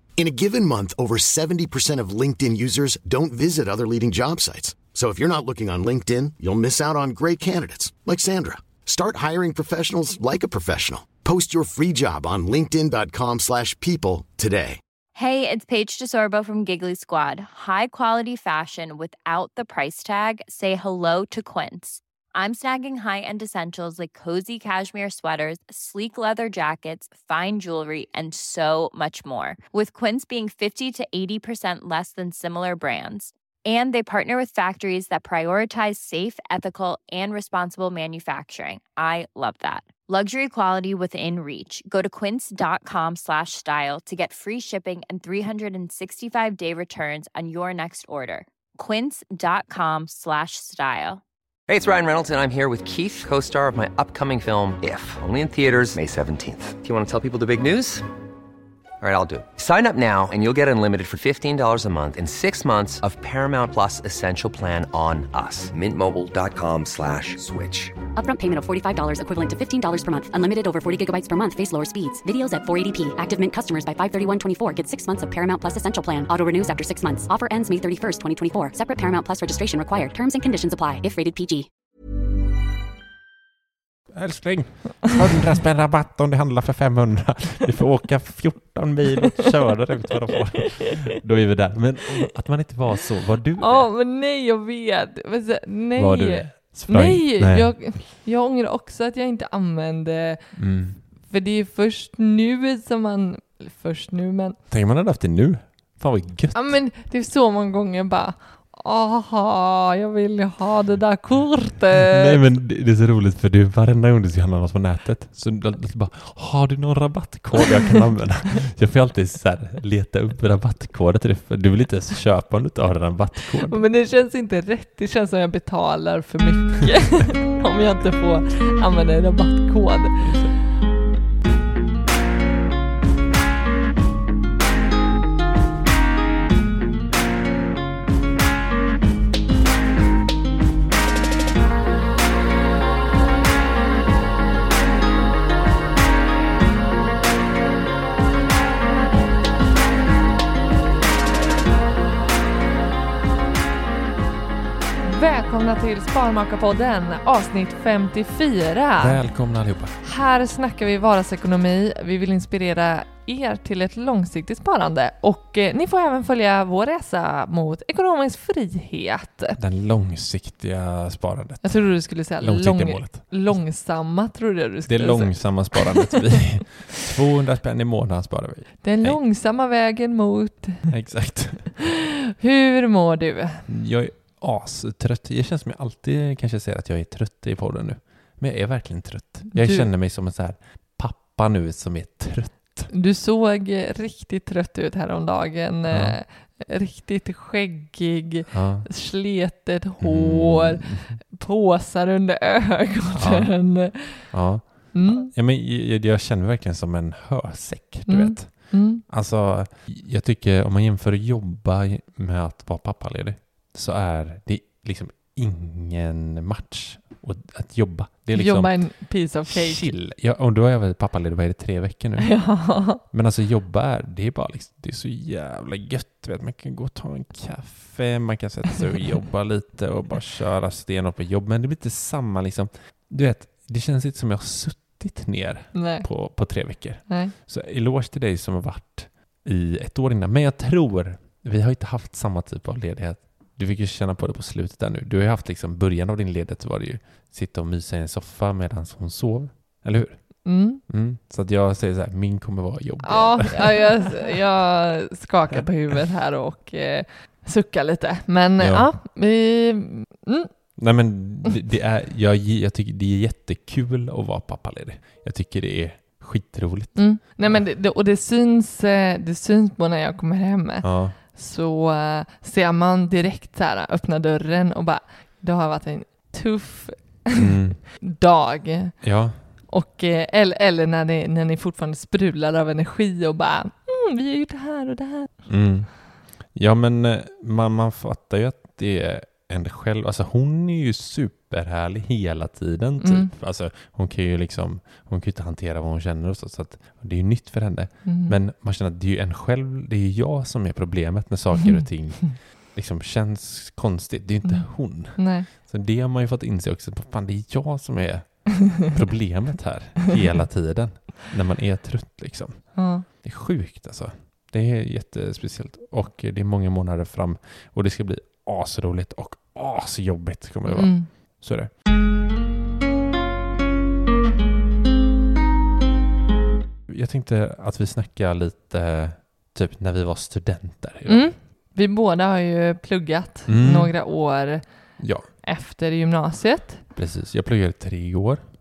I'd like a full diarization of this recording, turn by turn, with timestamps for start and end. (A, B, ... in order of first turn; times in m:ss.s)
0:00.2-0:14.8 A
0:15.1-0:51.2 B
0:51.7-0:58.0 C
0:59.0-1:08.0 C
1:08.1-1:21.7 D
1:24.1-1:33.9 E
1:33.6-1:44.6 F
1:36.0-1:37.8 E
1:40.6-1:41.0 E
1:44.7-1:46.8 E
1:46.5-1:52.5 F
1:52.0-2:03.8 E
2:03.7-2:10.3 F
2:10.2-2:10.5 E
2:35.0-2:49.6 F
2:39.0-2:40.0 E
2:49.6-2:53.6 E
2:51.6-2:56.0 F
2:54.8-2:59.2 E
2:58.8-3:00.8 F
3:00.9-3:01.8 E
3:02.4-3:03.6 F
3:03.7-3:12.9 E
3:09.5-3:09.9 F
3:12.9-3:24.3 F
3:15.9-3:16.2 E
3:18.5-3:18.9 E
3:20.0-3:21.2 E
3:23.1-4:14.2 E
3:24.9-3:25.3 F
3:28.1-3:29.0 F
3:38.3-3:39.9 F
3:42.3-3:43.0 F
3:55.7-3:57.3 F
4:10.4-4:10.8 F
4:13.0-4:20.5 F
4:18.6-4:18.9 E
4:20.8-4:27.6 E
4:27.0-4:45.5 F
4:30.8-4:31.2 E
4:37.4-4:37.8 E
4:39.0-4:39.4 E
4:45.5-5:21.7 E
4:53.0-4:53.3 F
4:58.0-4:58.4 F
5:04.4-5:05.5 F
5:12.7-5:13.0 F
5:20.7-5:21.1 F
5:26.9-5:31.3 E
5:31.1-5:36.8 F
5:33.5-5:34.0 E
5:35.0-5:35.3 E
5:36.9-5:38.4 E